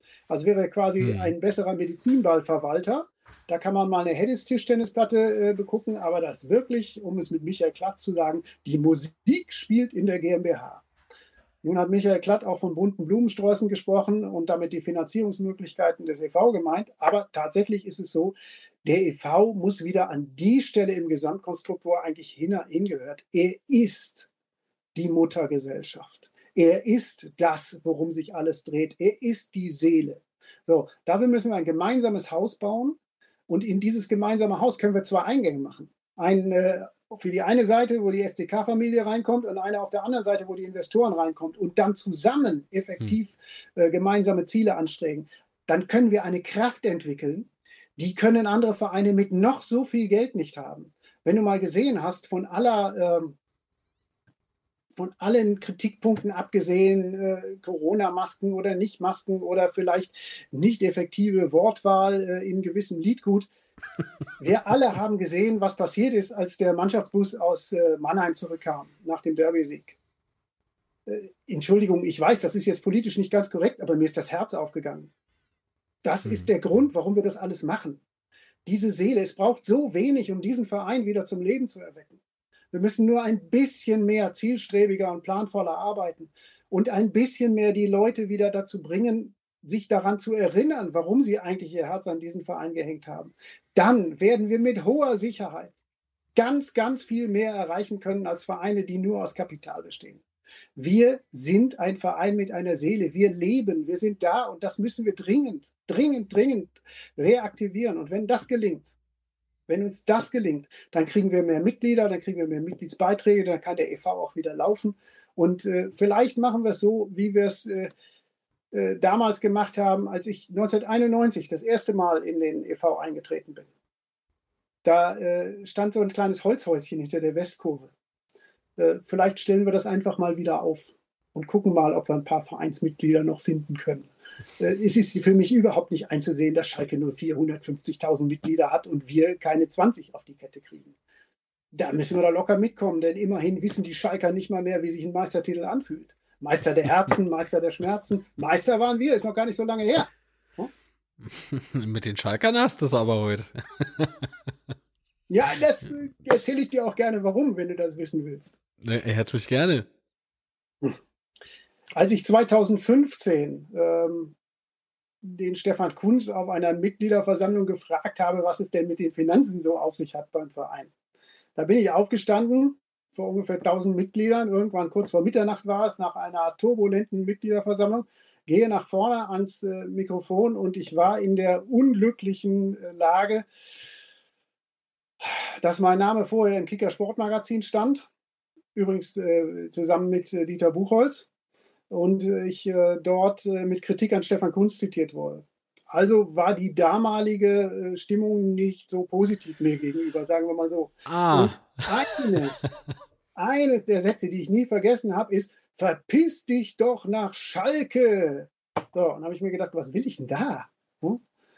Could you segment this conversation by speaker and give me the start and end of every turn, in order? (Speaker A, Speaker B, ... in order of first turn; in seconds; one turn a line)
Speaker A: 0.3-10.8
Speaker B: 1.0-1.3
Speaker A: 11.6-24.3
Speaker A: 24.9-33.0
Speaker A: 33.5-53.4
Speaker A: 54.9-63.5
Speaker A: 64.4-70.0
Speaker A: 71.1-75.1
Speaker A: 76.0-78.0
Speaker B: 76.2-76.5
Speaker A: 78.6-82.2
Speaker A: 82.7-95.7
Speaker A: 96.3-100.2
Speaker A: 100.8-109.0
Speaker A: 109.7-117.9
Speaker A: 118.7-123.7
Speaker A: 124.8-127.9
Speaker A: 128.8-140.9
Speaker A: 141.7-150.7
Speaker B: 151.2-154.5
Speaker A: 155.3-158.5
Speaker B: 158.8-159.9
Speaker A: 161.9-164.3
Speaker A: 165.2-170.9
Speaker A: 171.6-183.4
Speaker A: 185.2-188.1
Speaker A: 188.7-191.3
Speaker A: 191.9-202.7
Speaker B: 201.1-202.7
Speaker A: 203.3-211.2